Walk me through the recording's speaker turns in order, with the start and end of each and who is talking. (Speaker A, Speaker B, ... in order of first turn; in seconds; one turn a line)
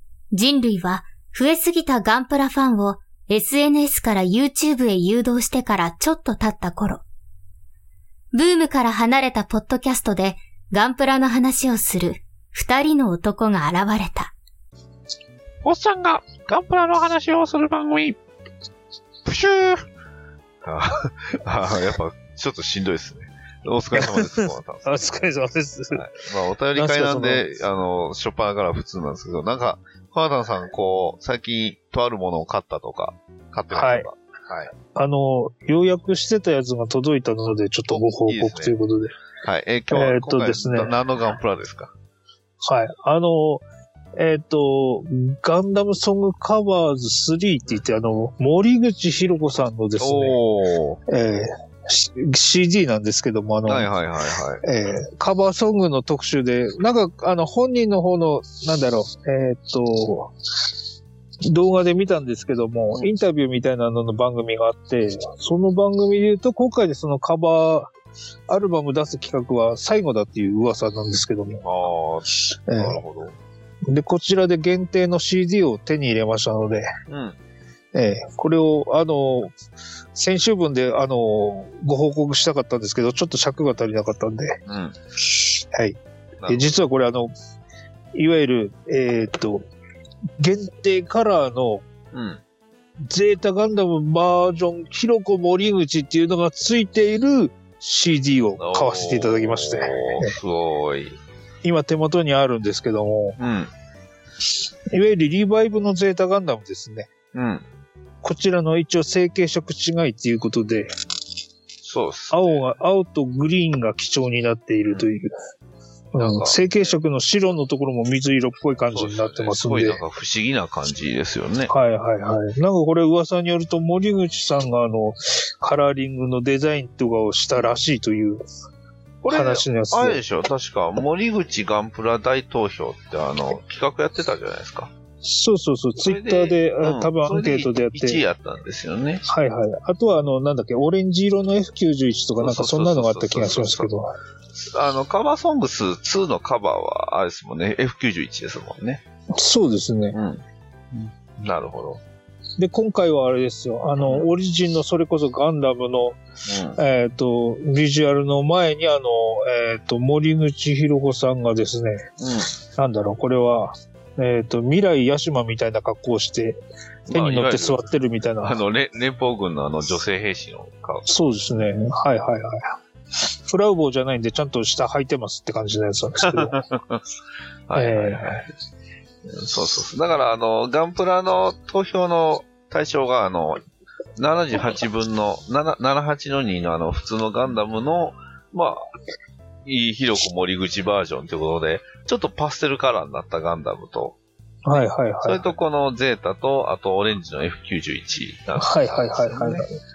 Speaker A: 0.3-7.0
Speaker A: 8.3-14.3
Speaker B: 15.6-18.2
Speaker B: 19.2-19.8
Speaker B: 20.6-25.3
Speaker C: 24.0-26.0
Speaker B: 25.9-34.7
Speaker C: 26.8-27.4
Speaker C: 33.7-34.1
Speaker C: 34.9-39.1
Speaker B: 37.9-38.7
Speaker B: 39.4-41.9
Speaker C: 39.9-40.9
Speaker C: 42.6-43.6
Speaker C: 44.1-50.4
Speaker B: 50.0-51.0
Speaker C: 51.1-53.9
Speaker B: 53.6-54.6
Speaker C: 54.6-60.3
Speaker C: 61.5-67.9
Speaker C: 68.5-71.6
Speaker B: 71.6-73.4
Speaker C: 72.7-73.0
Speaker C: 73.9-76.8
Speaker B: 77.1-77.4
Speaker C: 77.9-79.5
Speaker C: 80.1-84.6
Speaker B: 84.7-85.0
Speaker C: 85.4-87.3
Speaker B: 86.4-86.7
Speaker C: 88.1-89.7
Speaker C: 90.4-91.8
Speaker B: 92.1-92.4
Speaker C: 93.1-100.3
Speaker B: 98.6-101.2
Speaker C: 101.6-103.4
Speaker B: 103.4-103.7
Speaker C: 104.9-107.1
Speaker B: 107.3-107.6
Speaker C: 108.2-110.9
Speaker B: 111.8-112.6
Speaker C: 112.3-115.3
Speaker C: 116.1-120.0
Speaker B: 116.2-117.0
Speaker B: 118.9-121.7
Speaker C: 121.7-128.4
Speaker B: 129.2-134.9
Speaker C: 129.3-130.2
Speaker C: 135.2-138.2
Speaker B: 136.0-139.2
Speaker C: 139.3-144.1
Speaker B: 142.4-143.9
Speaker B: 144.5-149.0
Speaker C: 149.3-150.2
Speaker B: 150.1-152.0
Speaker C: 152.6-156.2
Speaker B: 154.0-154.3
Speaker B: 156.4-156.8
Speaker C: 156.7-162.0
Speaker B: 162.2-162.5
Speaker C: 162.7-166.6
Speaker B: 167.1-167.9
Speaker C: 167.1-168.6
Speaker B: 168.4-171.1
Speaker C: 171.1-172.7
Speaker C: 173.2-176.5
Speaker B: 176.2-177.0
Speaker B: 177.7-178.4
Speaker C: 177.7-178.4
Speaker B: 179.2-183.6
Speaker B: 184.2-188.8
Speaker B: 189.6-194.2
Speaker C: 194.6-195.4
Speaker B: 195.2-199.6
Speaker C: 198.6-199.7